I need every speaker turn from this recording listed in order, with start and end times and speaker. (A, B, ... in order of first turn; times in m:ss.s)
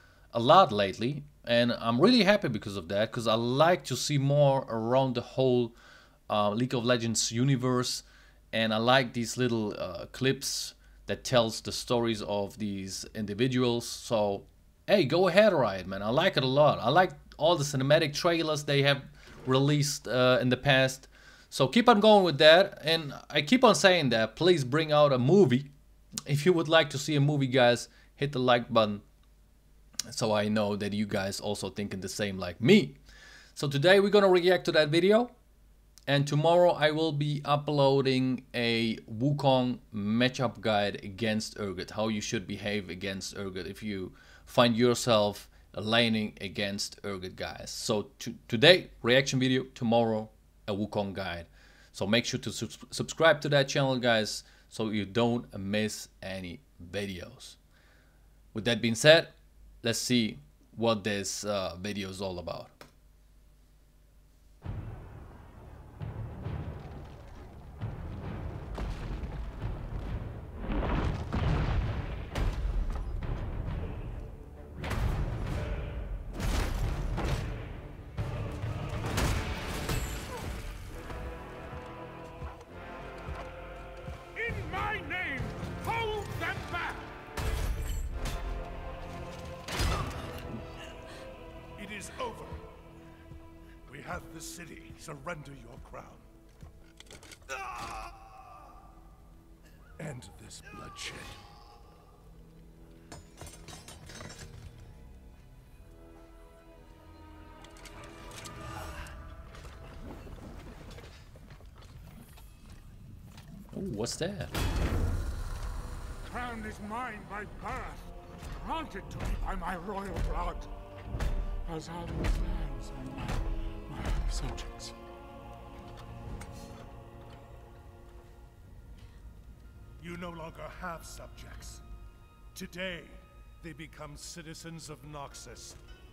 0:00.3-0:05.7 A
0:06.3-0:25.7 A
0:26.3-0:29.0 A
0:30.1-0:33.0 A
0:33.6-0:35.3 A
0:36.1-0:57.6 A
0:58.5-1:02.7 A
1:24.3-1:27.2 B
1:31.7-1:32.6 C
1:33.9-1:36.3 C
1:40.0-1:41.4 C
1:53.7-1:54.5 A
1:56.2-2:00.7 B
2:01.6-2:05.0 B
2:10.0-2:11.8 C
2:12.5-2:15.8 C